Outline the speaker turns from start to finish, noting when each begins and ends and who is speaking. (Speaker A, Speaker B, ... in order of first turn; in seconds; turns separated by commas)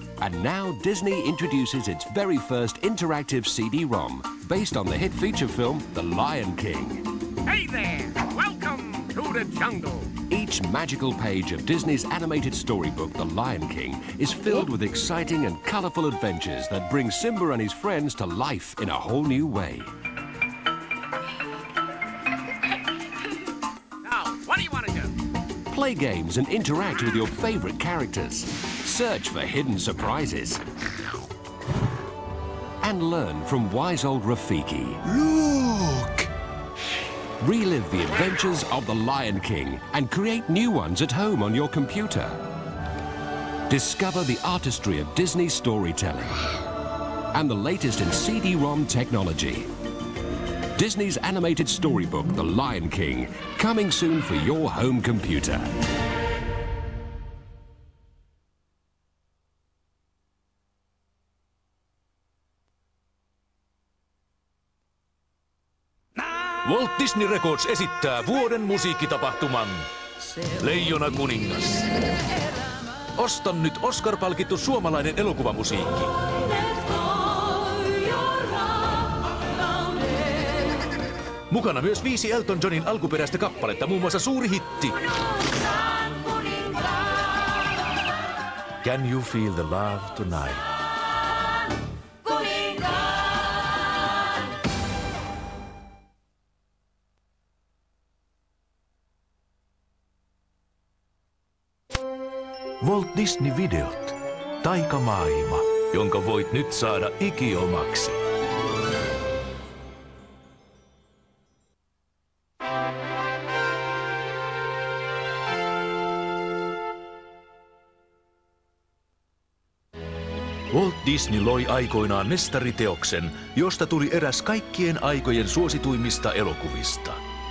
Speaker A: 0.2-7.0, Speaker B: 7.5-10.0, Speaker A: 10.1-19.9, Speaker B: 24.1-25.1, Speaker A: 25.7-30.6, Speaker A: 32.8-35.0, Speaker C: 35.1-36.3, Speaker A: 37.4-42.4, Speaker A: 43.7-46.5, Speaker A: 47.3-49.7, Speaker A: 50.8-55.7, Speaker C: 66.6-69.9, Speaker C: 70.5-71.9, Speaker C: 73.1-76.2, Speaker C: 81.5-85.1, Speaker C: 88.8-90.7, Speaker C: 102.8-108.2, Speaker C: 120.7-127.2